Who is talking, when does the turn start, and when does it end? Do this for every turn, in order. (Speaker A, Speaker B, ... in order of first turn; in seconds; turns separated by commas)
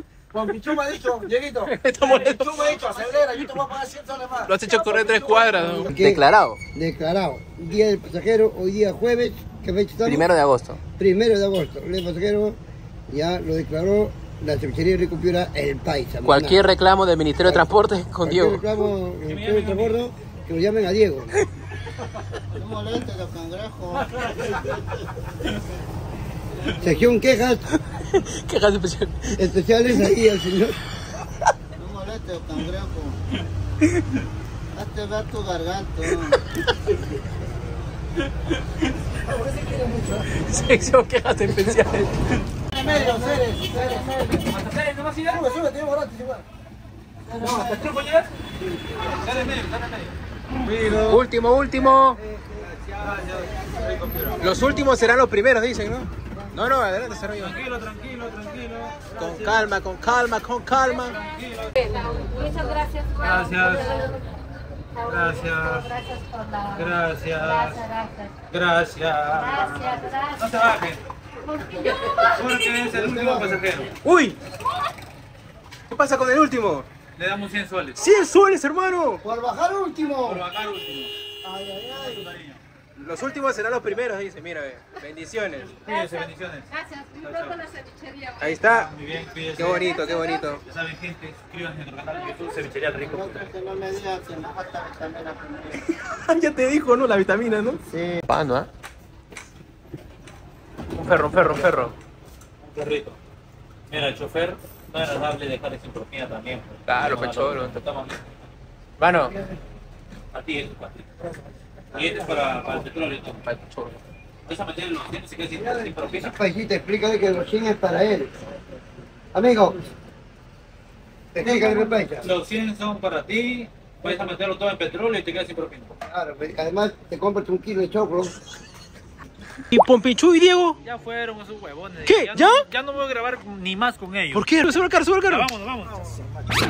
Speaker A: 0.3-5.9, Speaker B: 1.6-3.5, Speaker B: 4.5-6.6, Speaker C: 5.8-6.2, Speaker C: 6.8-10.3, Speaker B: 10.1-10.8, Speaker C: 11.0-12.6, Speaker C: 13.1-16.6, Speaker B: 16.2-18.7, Speaker C: 18.2-21.4, Speaker D: 19.2-20.1, Speaker E: 22.6-24.8, Speaker D: 23.9-24.8, Speaker C: 26.8-27.7, Speaker B: 27.7-29.4, Speaker C: 29.4-30.8, Speaker E: 31.8-33.2, Speaker E: 34.8-36.4, Speaker B: 36.2-37.0, Speaker A: 39.2-40.5, Speaker B: 40.3-42.4, Speaker A: 42.7-44.5, Speaker D: 42.8-43.2, Speaker D: 44.5-45.5, Speaker A: 45.2-46.5, Speaker C: 47.3-47.9, Speaker A: 47.4-47.9, Speaker D: 47.4-48.3, Speaker D: 49.0-51.2, Speaker A: 50.8-51.2, Speaker B: 51.0-52.2, Speaker A: 52.2-54.7, Speaker D: 53.0-54.5, Speaker B: 54.4-57.6, Speaker D: 57.4-59.7, Speaker B: 59.2-61.2, Speaker D: 61.0-62.6, Speaker F: 61.1-64.2, Speaker D: 63.2-64.1, Speaker F: 65.0-68.3, Speaker D: 65.1-65.9, Speaker D: 66.8-67.8, Speaker D: 68.5-71.0, Speaker F: 69.3-70.4, Speaker F: 71.6-72.6, Speaker C: 71.7-72.0, Speaker D: 72.2-73.9, Speaker C: 72.9-73.6, Speaker B: 74.0-74.4, Speaker B: 75.9-76.9, Speaker D: 77.2-78.0, Speaker B: 78.0-79.2, Speaker C: 79.2-80.4, Speaker D: 80.2-81.1, Speaker A: 81.7-82.0, Speaker D: 81.9-82.6, Speaker B: 83.0-85.8, Speaker D: 85.8-87.6, Speaker F: 85.9-88.5, Speaker B: 88.4-88.9, Speaker D: 88.6-90.0, Speaker B: 89.5-90.6, Speaker F: 90.0-90.4, Speaker D: 90.6-93.5, Speaker E: 93.0-95.8, Speaker B: 95.9-98.7, Speaker E: 97.9-98.2, Speaker B: 100.9-102.0, Speaker D: 102.6-103.2, Speaker D: 103.9-108.3, Speaker B: 106.9-107.8, Speaker B: 109.0-109.3, Speaker D: 110.3-111.1, Speaker D: 111.9-113.4, Speaker B: 113.4-114.0, Speaker D: 114.5-116.3, Speaker C: 116.1-118.3, Speaker C: 119.3-119.8, Speaker C: 121.3-122.3, Speaker D: 122.2-126.0, Speaker C: 126.1-128.3, Speaker B: 129.7-130.8, Speaker D: 130.8-134.5, Speaker B: 132.1-132.6, Speaker B: 134.3-135.5, Speaker D: 135.3-136.4